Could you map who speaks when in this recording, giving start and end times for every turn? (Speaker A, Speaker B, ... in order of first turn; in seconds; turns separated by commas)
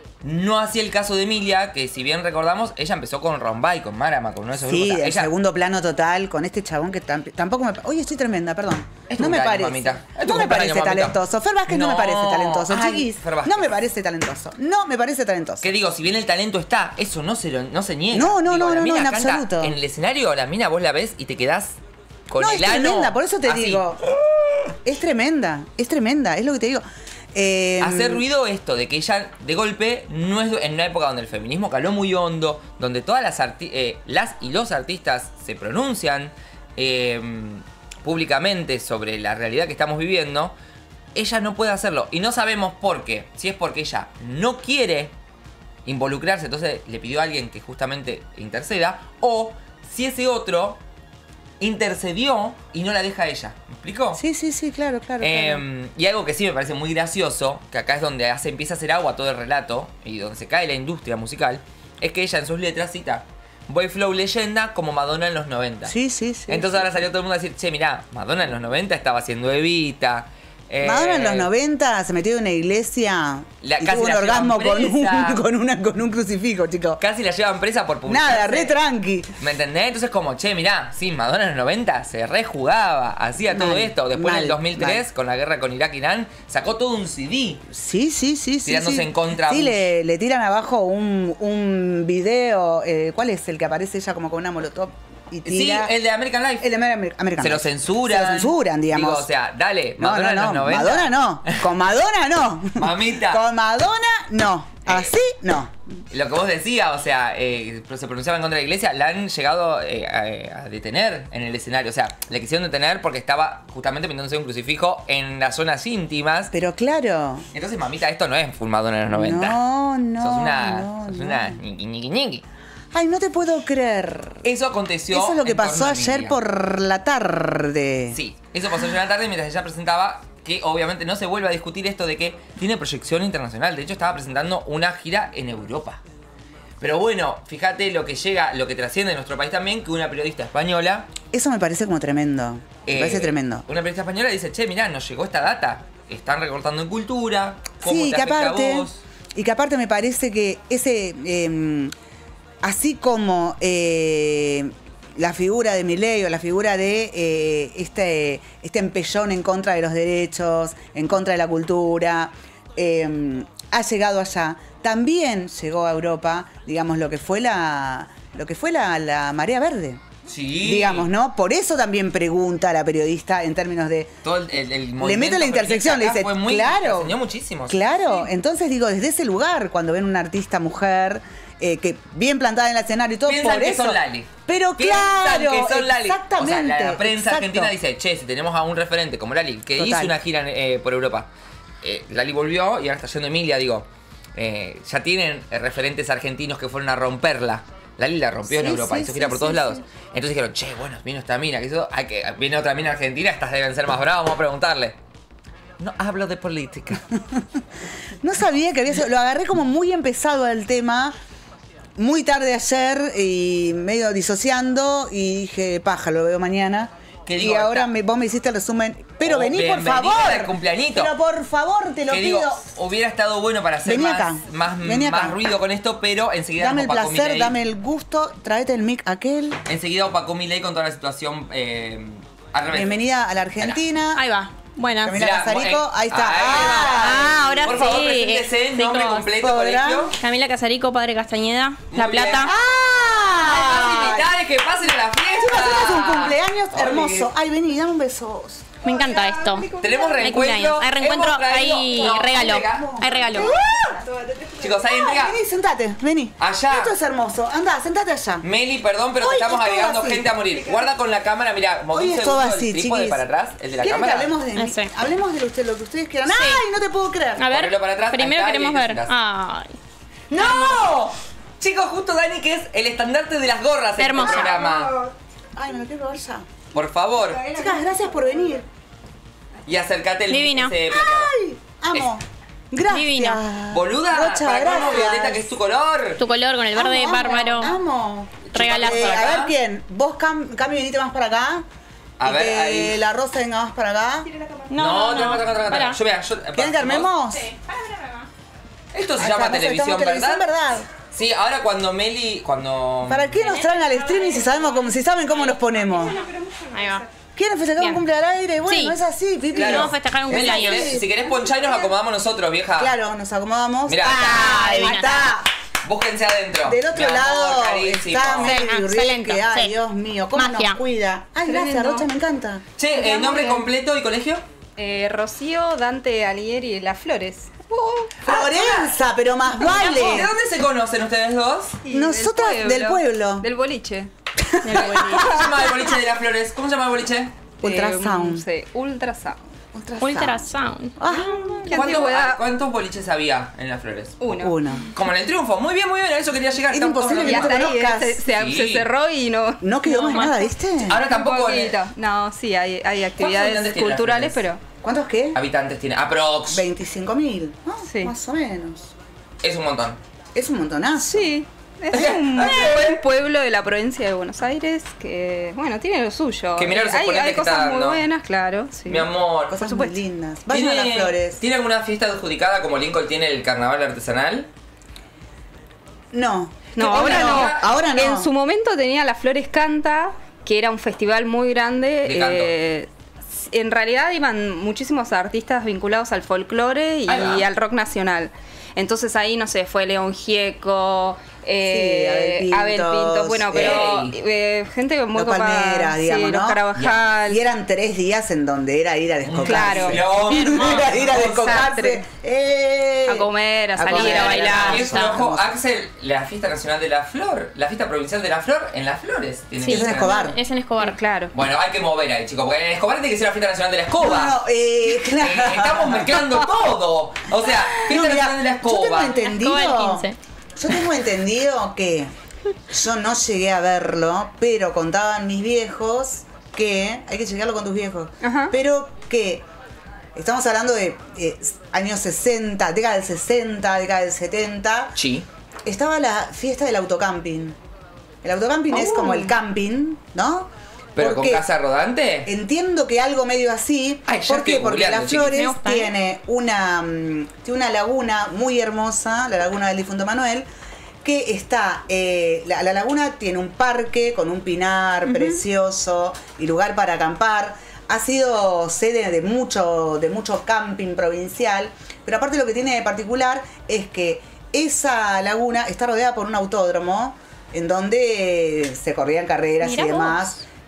Speaker A: 0.2-5.3, Speaker B: 4.6-15.7, Speaker A: 9.1-13.8, Speaker A: 15.6-21.8, Speaker B: 18.1-19.8, Speaker A: 22.3-23.8, Speaker B: 22.4-24.0, Speaker B: 24.8-28.2, Speaker A: 27.8-40.5, Speaker A: 41.1-45.1, Speaker A: 45.9-50.8, Speaker A: 51.6-54.2, Speaker B: 54.1-55.6, Speaker A: 55.2-66.0, Speaker B: 65.9-66.9, Speaker A: 66.5-71.5, Speaker B: 70.8-77.0, Speaker A: 73.6-75.4, Speaker A: 77.0-78.8, Speaker B: 78.1-79.3, Speaker A: 79.4-87.6, Speaker B: 83.5-85.0, Speaker B: 87.7-95.9, Speaker A: 88.7-89.9, Speaker A: 95.5-96.7, Speaker B: 96.6-99.3, Speaker A: 97.4-101.6, Speaker B: 100.0-105.8, Speaker A: 102.8-103.4, Speaker A: 104.9-105.1, Speaker A: 106.1-116.5, Speaker B: 116.5-117.5, Speaker A: 117.5-119.6, Speaker B: 119.1-121.6, Speaker A: 120.2-122.4, Speaker B: 122.9-124.5, Speaker A: 124.4-126.4, Speaker B: 125.1-128.2, Speaker A: 128.1-136.0, Speaker A: 136.8-141.1, Speaker B: 141.3-143.7, Speaker A: 142.9-149.0, Speaker B: 147.8-151.9, Speaker B: 152.6-170.0, Speaker A: 170.3-171.1, Speaker B: 170.6-174.2, Speaker A: 174.2-177.9, Speaker B: 175.0-177.2, Speaker B: 177.7-187.7, Speaker A: 183.3-191.3, Speaker B: 189.8-190.1, Speaker A: 191.8-205.0, Speaker B: 198.4-199.8, Speaker A: 205.8-207.0, Speaker B: 208.2-211.2, Speaker B: 212.0-222.6, Speaker A: 217.3-217.9, Speaker A: 219.2-221.1, Speaker A: 222.1-227.6, Speaker B: 223.8-225.4, Speaker B: 226.6-229.6, Speaker A: 229.7-233.0, Speaker B: 232.7-234.2, Speaker C: 234.2-235.2, Speaker B: 235.0-237.8, Speaker A: 235.1-240.1, Speaker C: 236.5-239.3, Speaker B: 239.4-240.2, Speaker C: 240.2-242.5, Speaker A: 241.9-242.5, Speaker B: 242.4-244.3, Speaker A: 243.4-247.3, Speaker B: 245.2-249.7, Speaker C: 248.8-249.7, Speaker A: 249.8-254.0, Speaker C: 250.2-253.5, Speaker B: 252.1-258.4, Speaker A: 254.6-255.4, Speaker A: 256.4-256.9, Speaker A: 258.4-264.3, Speaker B: 259.2-260.7, Speaker B: 261.9-263.2, Speaker B: 263.8-267.4, Speaker C: 264.6-264.9, Speaker C: 266.3-266.6, Speaker C: 267.4-269.8, Speaker A: 267.5-269.1, Speaker B: 270.3-271.1, Speaker C: 270.3-270.9, Speaker A: 270.4-271.0, Speaker A: 271.6-274.9, Speaker C: 274.0-274.6, Speaker B: 275.6-276.5, Speaker A: 276.7-277.5, Speaker B: 277.3-278.7, Speaker A: 279.7-281.4, Speaker C: 280.3-280.8, Speaker B: 280.9-285.5, Speaker C: 282.9-283.4, Speaker A: 283.7-286.2, Speaker C: 286.2-287.7, Speaker B: 286.8-291.6, Speaker A: 288.5-289.5, Speaker C: 288.5-289.1, Speaker A: 292.2-293.0, Speaker B: 292.2-294.3, Speaker C: 294.7-296.0, Speaker A: 294.8-297.1, Speaker B: 296.6-297.5, Speaker C: 297.4-298.3, Speaker A: 298.9-300.5, Speaker B: 299.2-300.9, Speaker A: 301.1-303.3, Speaker B: 303.1-306.2, Speaker C: 303.4-304.9, Speaker C: 306.7-307.1, Speaker B: 307.4-311.3, Speaker C: 307.8-308.0, Speaker C: 308.7-309.0, Speaker A: 309.5-312.9, Speaker C: 309.5-311.0, Speaker B: 312.8-315.5, Speaker A: 313.9-314.9, Speaker C: 314.2-315.4, Speaker A: 315.9-318.6, Speaker B: 316.7-322.6, Speaker C: 318.4-319.7, Speaker C: 320.4-320.8, Speaker D: 321.5-322.1, Speaker A: 322.8-324.4, Speaker D: 323.0-323.7, Speaker D: 324.8-327.6, Speaker A: 328.2-328.9, Speaker B: 328.2-330.3, Speaker A: 329.6-331.8, Speaker D: 331.9-334.1, Speaker B: 331.9-333.5, Speaker B: 334.4-335.3, Speaker C: 334.6-335.4, Speaker A: 334.7-337.4, Speaker B: 337.6-338.5, Speaker D: 337.6-339.4, Speaker B: 339.7-340.4, Speaker C: 340.0-341.0, Speaker B: 341.0-341.9, Speaker D: 341.1-342.4, Speaker A: 341.7-344.2, Speaker D: 344.2-344.6, Speaker B: 344.3-344.9, Speaker A: 344.9-347.7, Speaker B: 346.7-348.2, Speaker D: 347.2-350.4, Speaker A: 348.3-348.9, Speaker B: 349.6-351.0, Speaker C: 350.0-350.5, Speaker A: 350.9-351.8, Speaker D: 350.9-354.6, Speaker A: 353.2-354.4, Speaker B: 354.8-355.4, Speaker A: 355.3-356.6, Speaker B: 356.5-358.9, Speaker D: 357.9-358.1, Speaker A: 359.4-360.0, Speaker B: 360.4-361.3, Speaker D: 361.0-370.0, Speaker A: 361.9-363.0, Speaker A: 366.6-368.1, Speaker A: 368.9-369.6, Speaker B: 369.5-371.4, Speaker A: 370.5-374.5, Speaker B: 376.1-378.3, Speaker A: 376.8-377.7, Speaker D: 376.8-397.4, Speaker A: 382.0-382.5, Speaker A: 387.1-387.5, Speaker B: 391.6-393.9, Speaker A: 393.5-394.2, Speaker B: 395.1-396.6, Speaker A: 396.8-397.1, Speaker B: 397.2-405.6, Speaker A: 399.2-401.7, Speaker D: 399.4-402.1, Speaker C: 400.3-400.9, Speaker D: 403.1-404.9, Speaker A: 403.9-410.1, Speaker C: 403.9-405.2, Speaker D: 409.6-410.2, Speaker B: 409.6-410.4, Speaker C: 410.0-411.0, Speaker D: 410.8-411.3, Speaker A: 411.3-414.4, Speaker B: 414.0-416.2, Speaker A: 415.2-419.2, Speaker B: 417.7-422.1, Speaker C: 419.2-420.2, Speaker B: 422.7-429.4, Speaker D: 428.2-428.6, Speaker B: 430.1-434.9, Speaker A: 435.0-435.3, Speaker B: 435.7-437.6, Speaker B: 438.2-441.4, Speaker A: 441.0-442.3, Speaker B: 442.2-450.5, Speaker A: 444.1-445.4, Speaker C: 445.3-445.9, Speaker B: 451.0-470.4, Speaker C: 469.6-470.4